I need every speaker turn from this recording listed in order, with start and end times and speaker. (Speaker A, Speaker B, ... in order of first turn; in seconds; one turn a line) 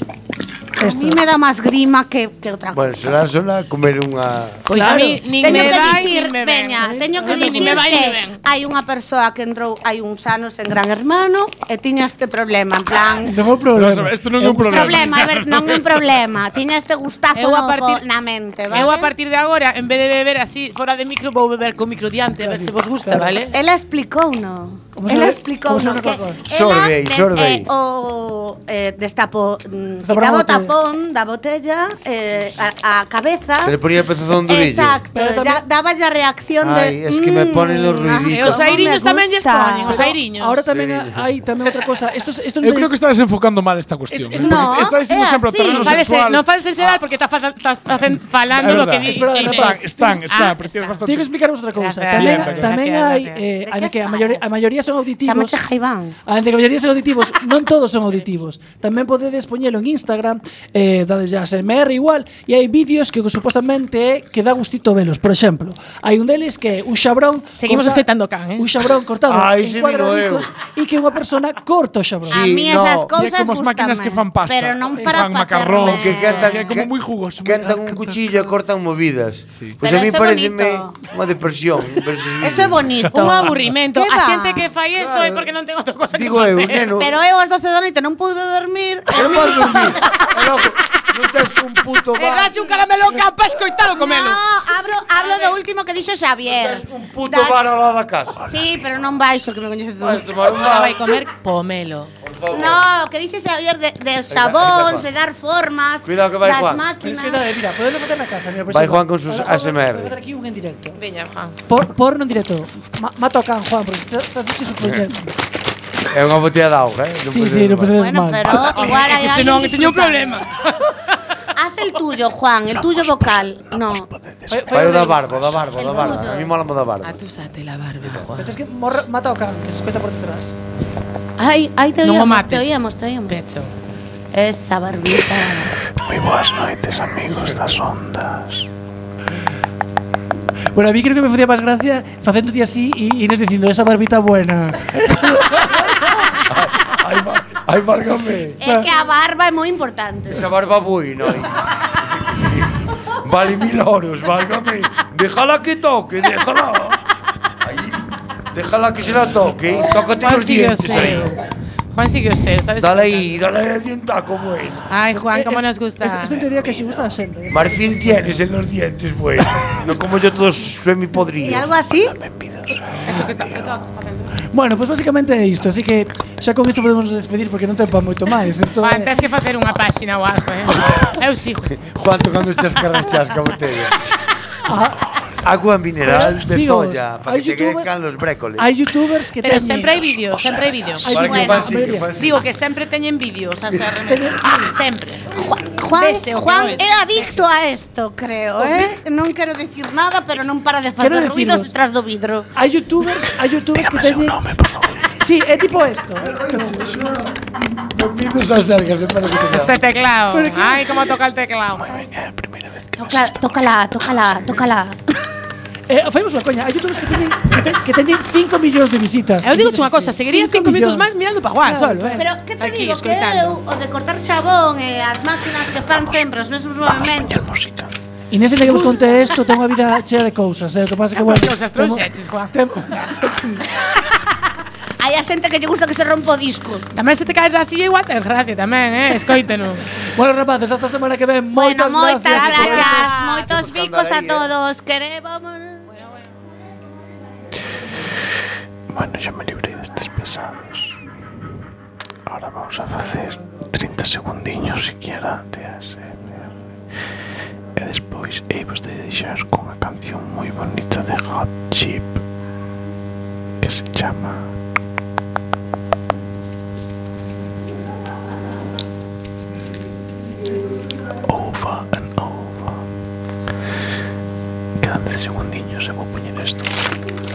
Speaker A: 0.8-1.2
Speaker B: 0.8-3.2
Speaker C: 2.7-4.7
Speaker D: 4.7-8.4
Speaker A: 4.7-6.1
Speaker B: 5.4-13.3
Speaker A: 6.8-8.0
Speaker A: 13.2-15.2
Speaker E: 13.7-16.2
Speaker B: 14.6-19.1
Speaker D: 17.3-18.0
Speaker D: 18.7-23.5
Speaker A: 22.4-23.5
Speaker B: 23.5-33.8
Speaker A: 25.0-26.4
Speaker C: 26.5-27.7
Speaker A: 30.0-30.7
Speaker C: 33.6-35.0
Speaker B: 34.5-40.1
Speaker A: 35.1-35.6
Speaker C: 36.6-38.9
Speaker D: 38.3-40.7
Speaker A: 39.9-42.9
Speaker C: 40.7-41.3
Speaker E: 42.6-46.4
Speaker A: 44.1-45.1
Speaker B: 44.4-46.0
Speaker D: 45.6-51.0
Speaker E: 48.5-51.3
Speaker A: 48.7-50.4
Speaker A: 51.0-55.6
Speaker D: 51.8-53.4
Speaker E: 52.2-52.7
Speaker B: 53.7-54.5
Speaker B: 55.2-56.1
Speaker A: 56.3-72.5
Speaker D: 67.6-68.7
Speaker C: 69.3-70.5
Speaker C: 72.3-73.1
Speaker B: 72.3-76.8
Speaker E: 73.1-78.3
Speaker A: 75.0-75.3
Speaker C: 75.8-82.9
Speaker B: 79.8-81.0
Speaker B: 82.4-84.7
Speaker D: 83.1-86.9
Speaker C: 85.0-85.5
Speaker C: 86.1-87.1
Speaker B: 86.9-90.0
Speaker C: 89.1-92.6
Speaker D: 92.2-94.4
Speaker B: 93.9-97.6
Speaker D: 95.2-95.7
Speaker C: 96.4-98.4
Speaker B: 98.5-100.3
Speaker C: 100.0-101.1
Speaker D: 100.5-102.1
Speaker C: 102.2-102.8
Speaker B: 102.5-107.5
Speaker C: 104.3-105.1
Speaker C: 106.0-106.8
Speaker A: 107.0-111.0
Speaker C: 108.7-110.1
Speaker D: 111.0-111.6
Speaker A: 111.7-115.3
Speaker C: 116.1-118.0
Speaker A: 117.3-118.9
Speaker B: 118.0-120.5
Speaker D: 118.8-120.8
Speaker B: 121.6-124.1
Speaker F: 122.7-125.7
Speaker A: 124.5-125.3
Speaker C: 124.7-127.2
Speaker B: 125.8-126.5
Speaker D: 127.0-128.6
Speaker C: 128.0-128.3
Speaker A: 128.4-130.5
Speaker B: 131.4-133.3
Speaker D: 132.0-133.7
Speaker B: 134.3-135.8
Speaker F: 136.1-138.7
Speaker A: 140.7-145.9
Speaker C: 146.5-148.6
Speaker B: 148.6-150.5
Speaker A: 148.6-148.9
Speaker C: 150.3-151.7
Speaker C: 152.2-157.0
Speaker C: 157.6-161.3
Speaker D: 160.2-161.4
Speaker D: 161.9-163.4
Speaker C: 162.8-164.9
Speaker D: 164.9-166.4
Speaker A: 165.1-168.4
Speaker C: 167.5-171.7
Speaker B: 171.4-172.2
Speaker F: 171.9-173.8
Speaker D: 173.0-174.3
Speaker A: 174.5-179.1
Speaker D: 178.8-181.8
Speaker C: 181.8-183.9
Speaker A: 184.6-185.0
Speaker C: 185.4-188.7
Speaker A: 186.0-187.9
Speaker A: 188.6-190.1
Speaker D: 189.4-191.6
Speaker F: 190.3-190.8
Speaker A: 191.0-192.1
Speaker C: 191.1-192.4
Speaker B: 191.2-191.7
Speaker D: 192.1-195.3
Speaker A: 194.1-194.7
Speaker B: 195.3-202.5
Speaker D: 195.9-197.4
Speaker A: 198.6-198.9
Speaker A: 201.0-201.7
Speaker A: 202.6-204.4
Speaker F: 203.2-205.1
Speaker A: 205.2-206.8
Speaker C: 206.2-209.8
Speaker D: 209.5-211.9
Speaker A: 210.3-211.2
Speaker F: 211.7-214.0
Speaker B: 212.9-215.0
Speaker A: 215.9-222.2
Speaker D: 219.4-223.6
Speaker B: 222.2-227.4
Speaker F: 225.7-226.3
Speaker F: 226.8-227.9
Speaker A: 228.3-233.7
Speaker D: 231.2-232.5
Speaker B: 235.0-236.9
Speaker D: 236.9-239.8
Speaker A: 240.2-243.1
Speaker B: 241.5-245.9
Speaker D: 242.3-243.5
Speaker C: 242.6-244.5
Speaker D: 245.9-246.3
Speaker F: 248.9-251.0
Speaker F: 252.3-256.5
Speaker F: 257.8-262.2
Speaker F: 263.6-264.5
Speaker F: 271.3-272.9
Speaker F: 274.8-276.8